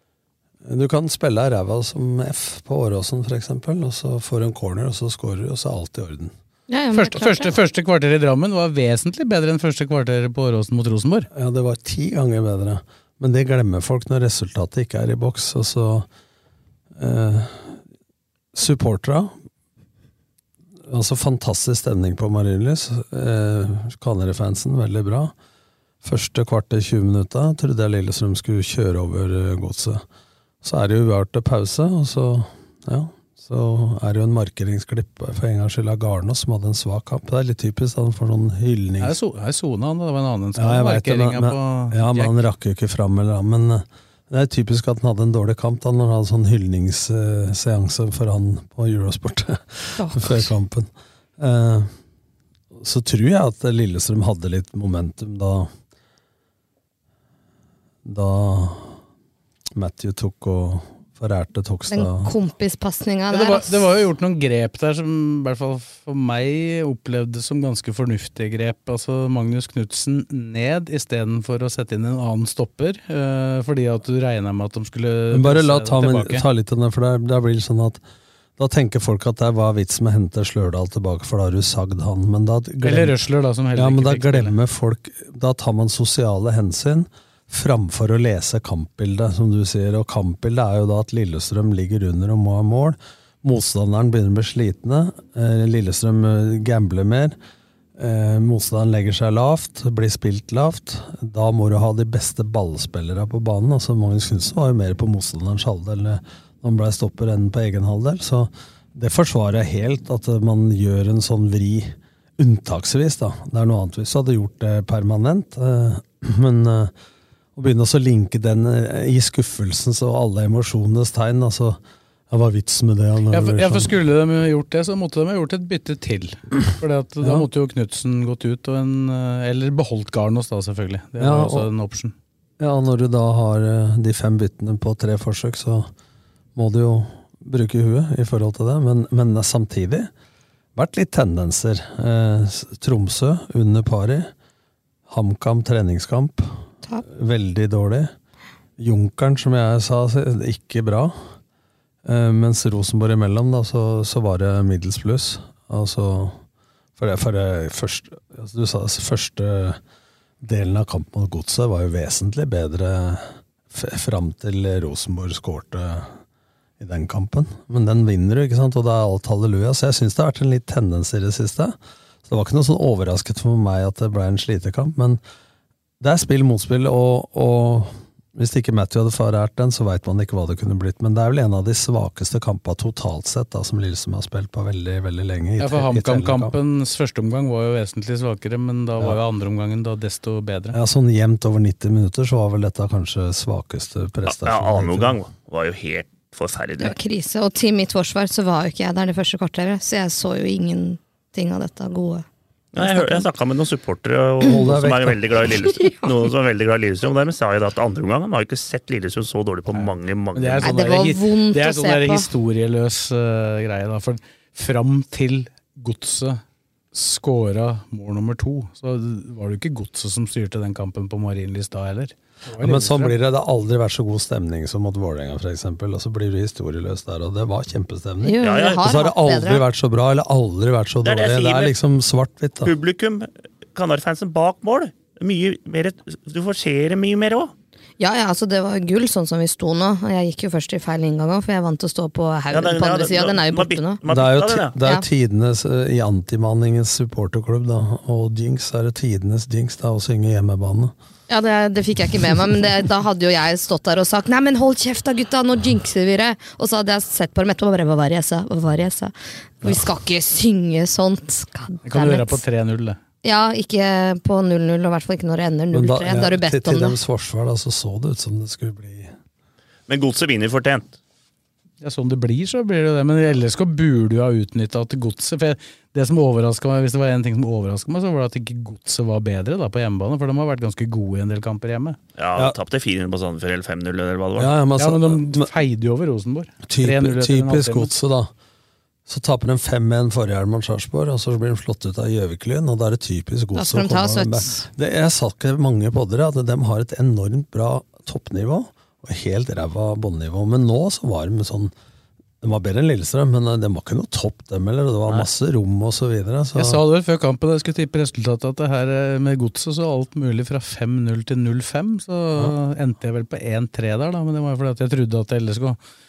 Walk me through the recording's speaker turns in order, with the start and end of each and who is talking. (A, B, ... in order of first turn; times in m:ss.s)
0:00.6-0:06.3 A
0:06.7-0:07.6 B
0:06.9-0:11.3 C
0:11.3-0:16.1 A
0:17.0-0:17.8 A
0:18.5-0:19.3 A
0:20.9-0:25.3 A
0:26.0-0:30.0 A
0:30.6-0:39.2 A
0:39.0-0:42.4 C
0:40.6-0:51.9 A
0:50.0-0:50.5 B
0:52.8-0:55.7 A
0:58.0-0:58.9 A
0:59.8-1:02.3 A
1:01.9-1:04.0 B
1:03.3-1:16.4 C
1:15.3-1:18.0 A
1:18.6-1:23.2 A
1:22.8-1:24.6 C
1:23.7-1:37.4 A
1:38.0-1:56.9 A
1:57.6-2:01.8 A
2:02.3-2:03.9 A
2:03.3-2:12.1 C
2:11.2-2:11.7 A
2:12.6-2:15.9 A
2:16.5-2:20.1 A
2:20.7-2:24.3 A
2:25.1-2:26.5 A
2:27.0-2:28.1 A
2:28.8-2:31.2 A
2:32.0-2:36.4 A
2:37.0-2:39.8 A
2:40.4-2:46.1 A
2:46.8-2:55.2 A
2:56.0-3:06.5 A
3:05.6-3:10.8 C
3:10.7-3:15.2 A
3:14.3-3:17.0 D
3:16.8-3:22.2 B
3:22.7-3:30.7 D
3:22.8-3:23.3 B
3:24.4-3:25.5 A
3:25.8-3:26.1 B
3:29.7-3:36.4 C
3:30.6-3:32.3 B
3:36.9-3:43.1 C
3:42.6-3:52.7 A
3:48.2-3:49.6 B
3:48.4-3:48.8 D
3:51.0-3:51.7 D
3:52.6-3:57.5 D
3:58.0-4:04.0 B
4:02.5-4:04.8 D
4:04.1-4:10.9 A
4:11.3-4:22.4 B
4:21.8-4:23.0 C
4:23.2-4:27.0 B
4:25.7-4:29.1 A
4:29.9-4:30.9 D
4:31.8-4:42.0 C
4:42.2-4:44.5 D
4:44.4-4:45.5 A
4:44.8-4:47.9 C
4:46.7-4:48.3 A
4:49.1-5:01.7 A
4:53.5-4:54.6 B
5:02.4-5:06.8 A
5:06.6-5:15.8 C